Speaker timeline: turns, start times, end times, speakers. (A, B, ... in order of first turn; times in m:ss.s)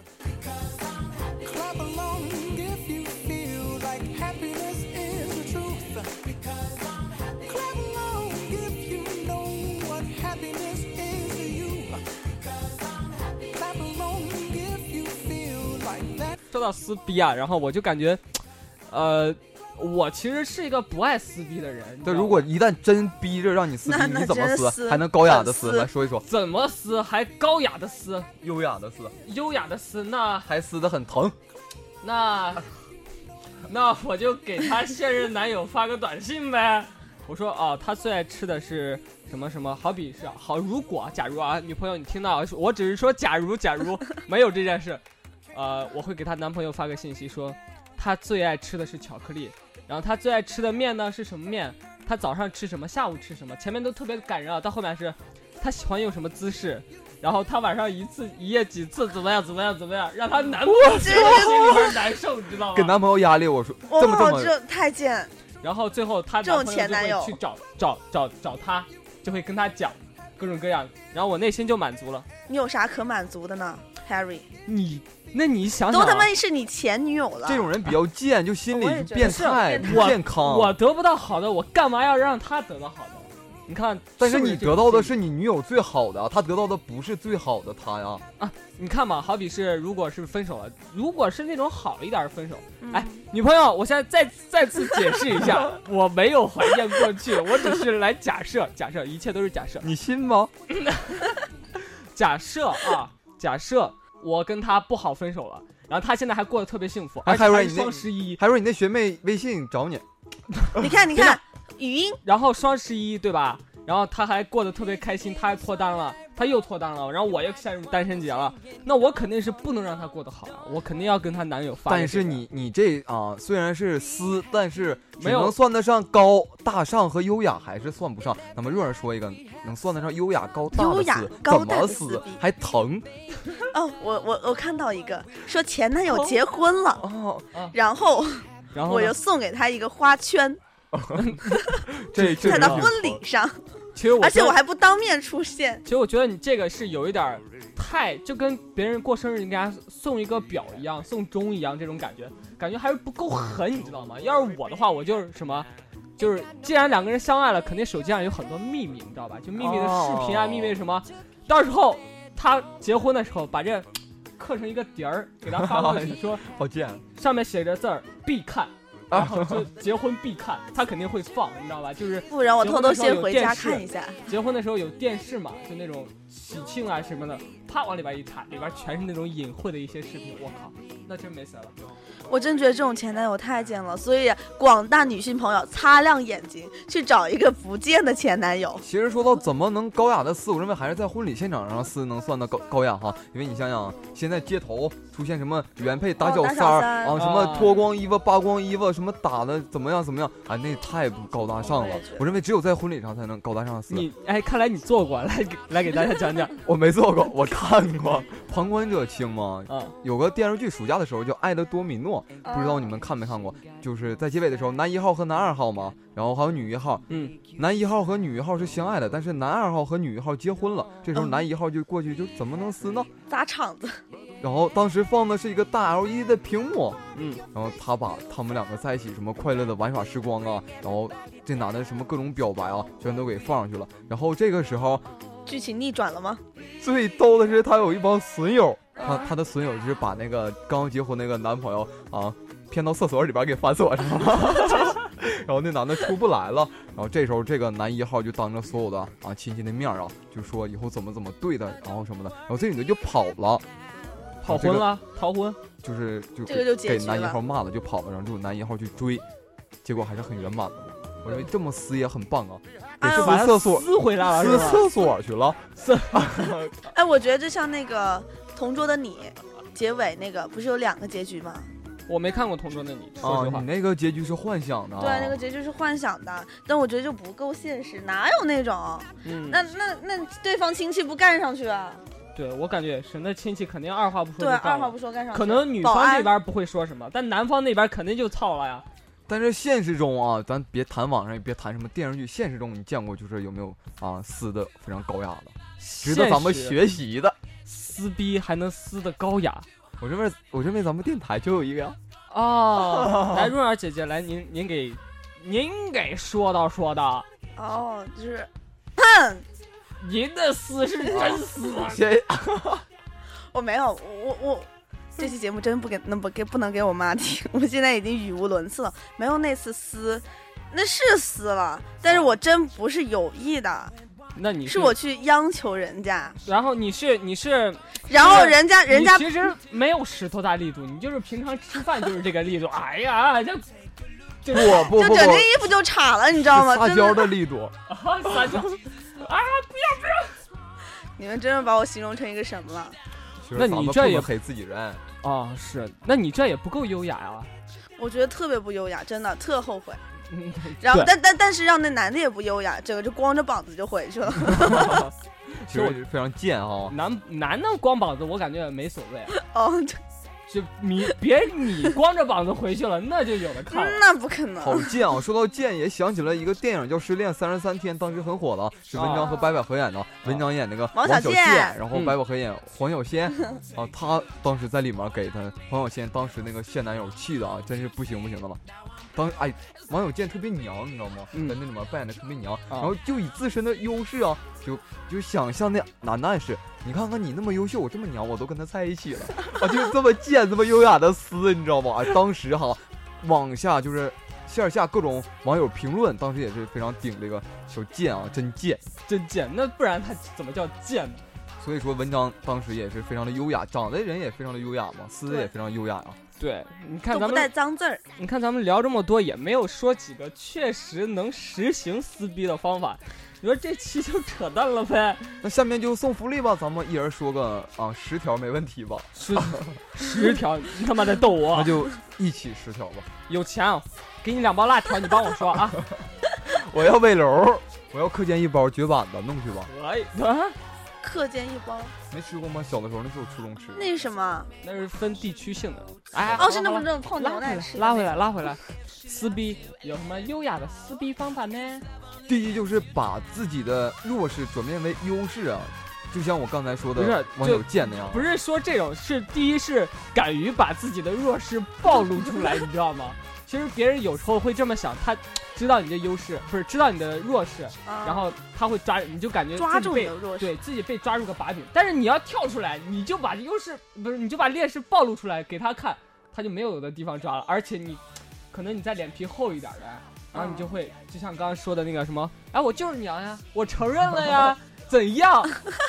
0:01.3-0:16.3 A
0:16.5-0:22.5 B
0:22.0-0:26.2 C
0:23.8-0:25.9 D
0:26.2-0:28.3 B
0:28.4-0:29.1 C
0:29.2-0:30.5 B
0:30.4-0:31.4 C
0:32.0-0:32.7 B
0:33.7-1:03.0 B
1:00.9-1:02.0 D
1:02.7-1:04.5 C
1:03.9-1:05.3 D
1:05.6-1:12.3 B
1:06.4-1:07.4 D
1:12.5-1:14.5 D
1:14.6-1:16.3 B
1:15.9-1:17.7 D
1:17.4-1:20.8 C
1:18.7-1:20.2 D
1:19.2-1:25.1 B
1:24.2-1:28.2 C
1:28.4-1:39.9 B
1:32.8-1:33.2 D
1:39.8-1:40.5 C
1:40.7-1:41.4 B
1:42.0-1:48.4 B
1:47.2-1:50.0 C
1:50.8-1:52.2 D
1:52.2-2:02.4 B
2:01.9-2:13.1 C
2:05.2-2:05.5 B
2:10.7-2:12.4 D
2:13.7-2:17.0 D
2:17.0-2:17.5 C
2:17.7-2:20.6 D
2:18.7-2:19.1 B
2:20.9-2:21.3 C
2:21.2-2:21.5 B
2:22.0-2:23.2 C
2:22.1-2:22.9 B
2:22.4-2:23.6 D
2:23.9-2:24.6 B
2:24.2-2:25.8 D
2:25.8-2:46.4 B
2:39.6-2:40.8 C
2:45.4-2:47.0 C
2:47.1-3:01.7 B
2:49.1-2:49.7 C
2:52.3-2:54.2 D
3:02.3-3:08.8 D
3:08.8-3:24.0 C
3:16.2-3:17.3 D
3:17.1-3:17.7 B
3:21.6-3:22.2 D
3:23.9-3:26.5 B
3:26.6-3:37.0 C
3:29.7-3:30.0 B
3:32.4-3:32.9 D
3:37.1-3:37.4 B
3:37.6-3:43.1 C
3:43.3-3:44.0 D
3:44.4-3:47.0 C
3:47.1-3:47.4 B
3:47.5-3:55.0 C
3:55.4-3:56.4 D
3:56.8-4:13.6 C
4:14.4-4:15.6 B
4:14.4-4:14.9 C
4:15.8-4:19.2 C
4:16.5-4:17.4 D
4:19.8-4:26.7 C
4:23.0-4:23.4 D
4:23.0-4:24.8 B
4:25.8-4:26.3 B
4:26.9-4:31.7 D
4:32.1-4:33.7 B
4:33.2-4:35.4 C
4:35.0-4:42.0 D
4:39.2-4:39.6 B
4:42.3-4:48.8 B
4:44.4-4:46.3 D
4:49.3-4:57.4 C
4:55.8-4:56.8 B
4:57.6-4:59.6 B
5:00.0-5:02.0 C
5:02.3-5:07.2 B
5:02.8-5:03.5 C
5:07.6-5:09.4 D
5:10.0-5:12.0 B
5:11.0-5:11.4 D
5:11.2-5:12.8 C
5:13.5-5:23.9 D
5:22.0-5:22.3 B
5:24.3-5:24.9 B
5:24.6-5:26.4 D
5:26.4-5:33.7 B
5:28.1-5:29.3 D
5:34.4-5:34.9 B
5:34.5-5:35.5 C
5:34.6-5:37.3 D
5:36.4-5:37.7 C
5:37.9-5:40.4 B
5:41.2-5:43.0 D
5:43.4-5:45.0 C
5:43.5-5:44.3 B
5:45.2-5:47.5 B
5:48.0-5:50.0 D
5:50.3-5:51.1 B
5:50.8-5:55.1 D
5:54.6-5:55.1 C
5:55.6-5:56.9 C
5:55.7-5:56.0 B
5:56.9-5:59.4 B
5:59.3-6:00.0 D
6:00.5-6:04.0 B
6:03.7-6:04.9 D
6:04.6-6:18.6 C
6:08.9-6:09.3 B
6:10.9-6:11.8 D
6:19.1-6:38.8 C
6:21.3-6:21.6 B
6:39.0-6:41.2 B
6:41.6-6:46.2 C
6:46.4-6:47.5 B
6:47.1-6:48.0 D
6:48.2-6:55.4 B
6:55.4-6:59.7 C
6:59.1-7:01.7 B
7:01.5-7:03.1 C
7:03.3-7:05.8 B
7:06.4-7:09.7 C
7:09.7-7:10.6 B
7:11.0-7:11.9 D
7:12.1-7:13.8 C
7:13.8-7:14.5 D
7:14.6-7:21.8 B
7:16.4-7:18.2 D
7:22.3-7:28.3 C
7:27.0-7:55.5 B
7:37.8-7:38.2 D
7:39.6-7:40.5 D
7:50.3-7:50.7 D